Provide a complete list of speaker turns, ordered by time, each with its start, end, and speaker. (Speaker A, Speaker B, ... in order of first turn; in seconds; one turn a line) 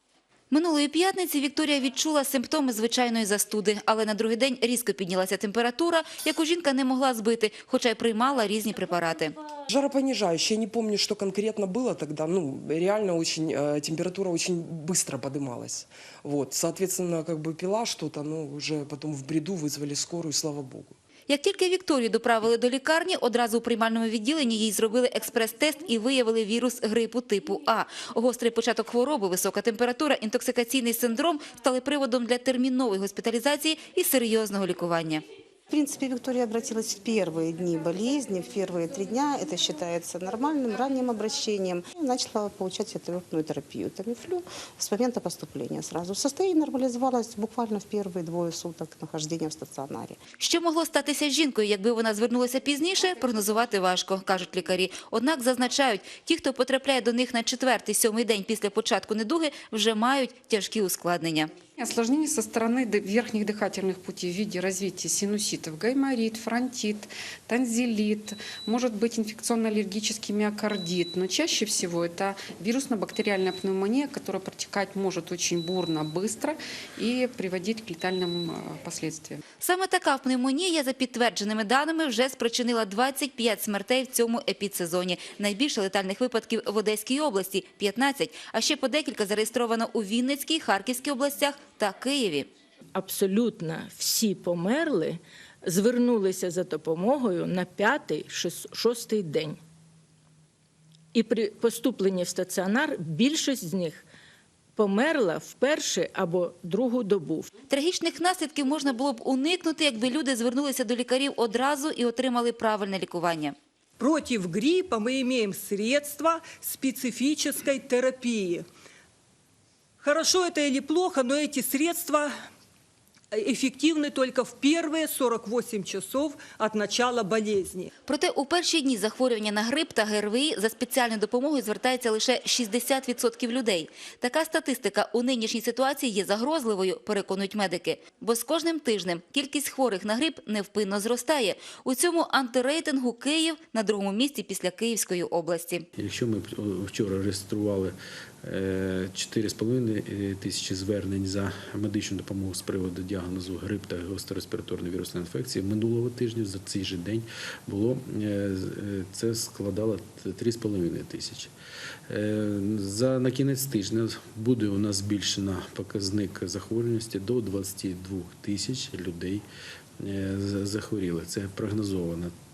Speaker A: 0.5-9.4
Speaker B: 9.7-21.0
Speaker A: 21.3-35.2
Speaker C: 35.7-50.2
Speaker A: 50.4-61.5
Speaker D: 61.8-79.4
Speaker A: 79.6-92.5
Speaker E: 93.0-99.6
Speaker E: 101.1-104.0
Speaker E: 104.8-107.5
Speaker A: 107.7-113.5
Speaker F: 114.0-118.7
Speaker F: 120.0-122.3
Speaker F: 123.3-127.9
Speaker A: 128.1-145.9
Speaker G: 146.0-161.5
Speaker G: 162.1-169.4
Speaker G: 170.0-172.3